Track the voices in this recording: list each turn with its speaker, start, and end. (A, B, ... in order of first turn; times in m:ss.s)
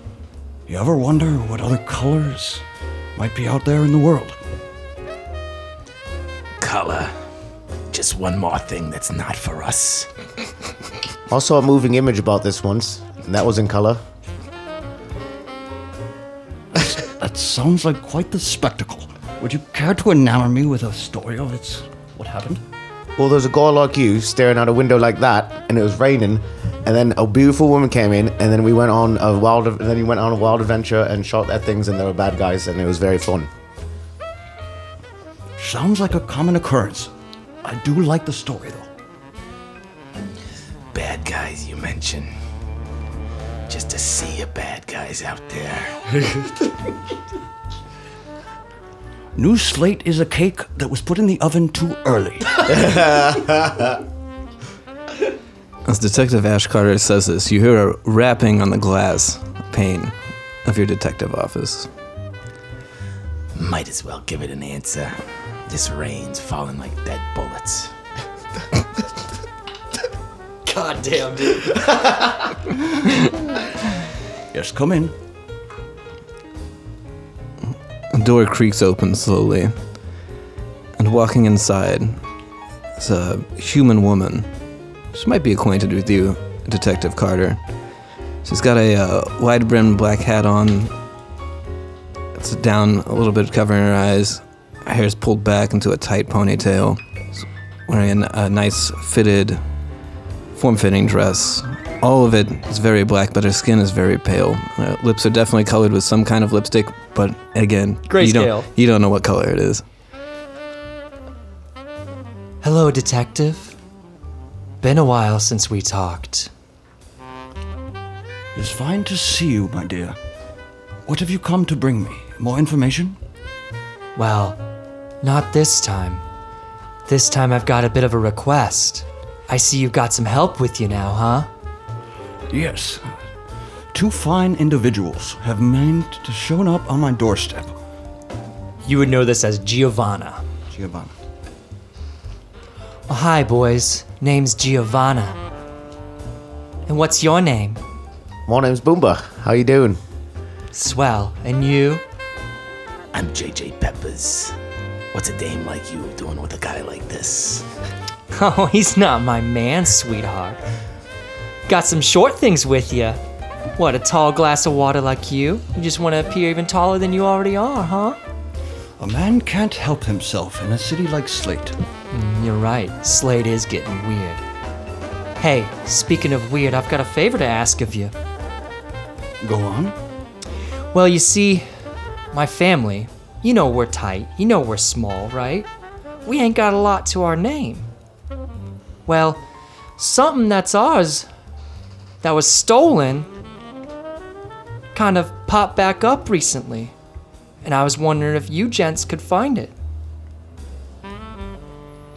0:00.7-0:02.6 A
0:03.2-0:04.4 A
0:06.6-0:07.1 B
0:07.9-0:10.1 B
0:11.3-0:14.0 C
0:16.7-0:22.6 A
0:23.2-0:33.5 C
0:35.6-0:37.1 A
0:37.6-0:38.9 A
0:40.9-0:42.3 B
0:43.7-0:46.0 B
0:49.3-0:53.2 A
0:55.8-1:01.9 D
1:03.5-1:07.9 B
1:10.6-1:12.2 E
1:14.5-1:15.1 A
1:18.1-1:19.8 D
1:21.0-1:22.2 D
1:23.0-1:24.5 D
1:25.1-1:27.6 D
1:28.4-1:30.9 D
1:32.3-1:39.6 D
1:40.5-1:49.8 D
1:48.1-1:48.7 E
1:52.6-1:53.8 E
1:54.8-1:56.5 E
1:58.5-2:00.2 A
2:01.0-2:03.2 A
2:04.1-2:04.6 E
2:05.2-2:06.2 E
2:07.0-2:11.5 E
2:12.5-2:13.2 A
2:13.9-2:17.8 A
2:18.8-2:20.4 E
2:20.7-2:21.1 A
2:23.1-2:25.4 E
2:26.9-2:27.8 E
2:28.4-2:30.0 C
2:30.7-2:32.0 E
2:33.1-2:34.6 B
2:35.1-2:37.7 B
2:38.3-2:40.6 E
2:41.7-2:43.2 E
2:43.8-2:48.2 E
2:49.0-2:51.8 A
2:52.1-2:54.4 E
2:55.4-2:58.1 E
2:59.4-3:00.0 A
3:00.9-3:01.7 E
3:02.3-3:05.7 E
3:06.2-3:07.9 E
3:09.1-3:09.4 E
3:10.0-3:11.3 E
3:12.2-3:13.3 E
3:14.9-3:16.9 E
3:17.6-3:19.7 E